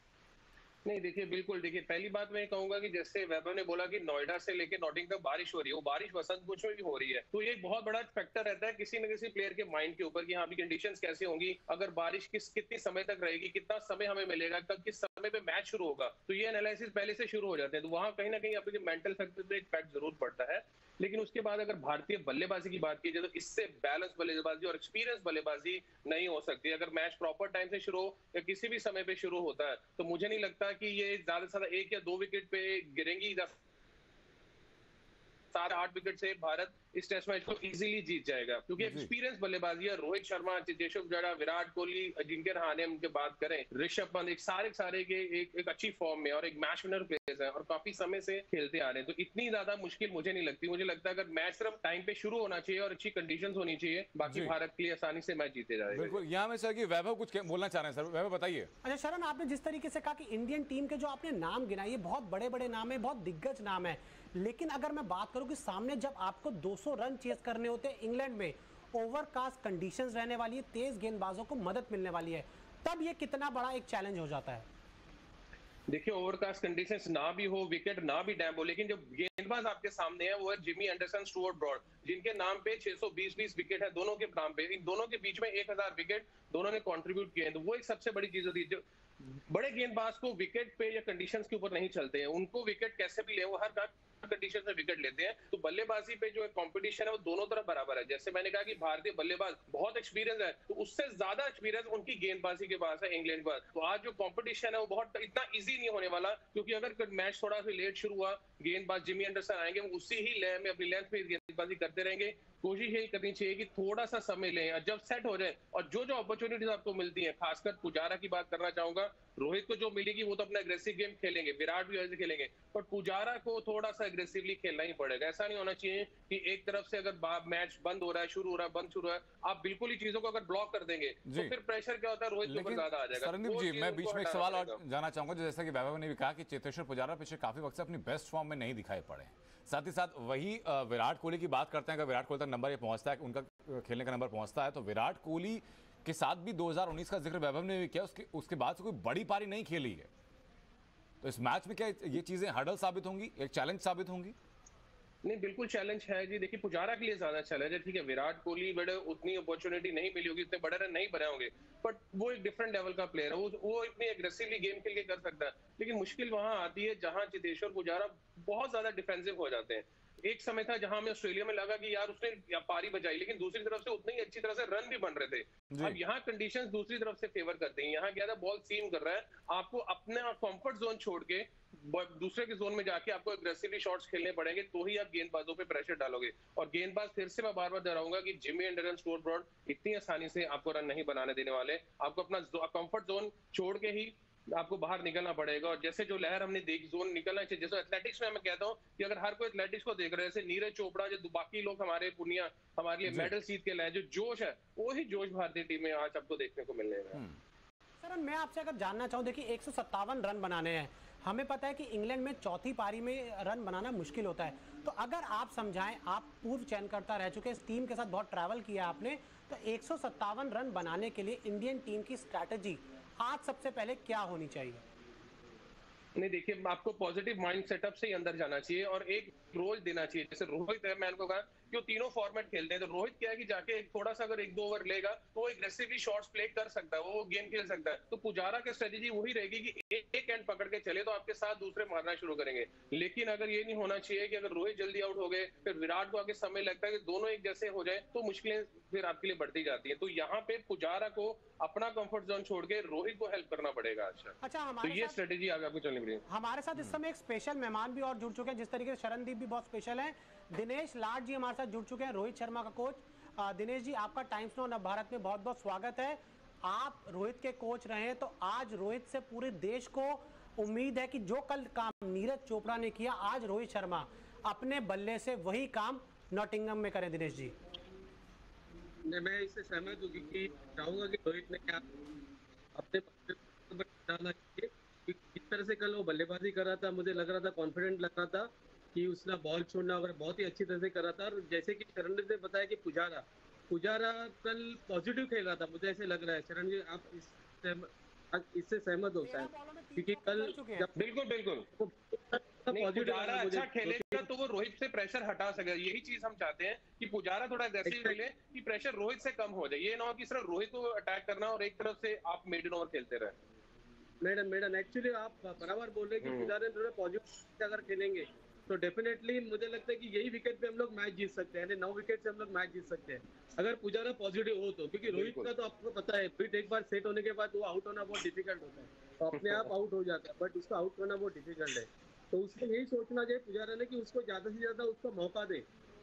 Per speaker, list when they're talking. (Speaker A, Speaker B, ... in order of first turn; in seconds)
Speaker A: 0.9-33.5, 35.5-56.2, 75.9-134.8, 155.2-207.2, 226.2-256.2, 301.0-301.7, 302.7-313.4, 316.2-316.5, 325.1-325.5, 329.4-329.7
Speaker B: 38.8-39.1, 54.3-54.5, 55.9-58.7, 131.3-131.5, 132.4-150.1, 151.2-154.3, 175.7-176.0, 203.1-203.3
Speaker C: 58.8-74.7, 208.0-224.8, 254.4-255.2, 256.3-277.5, 299.2-300.9
Speaker D: 279.1-281.8, 282.8-301.0, 301.8-304.3, 307.9-308.2, 314.2-335.6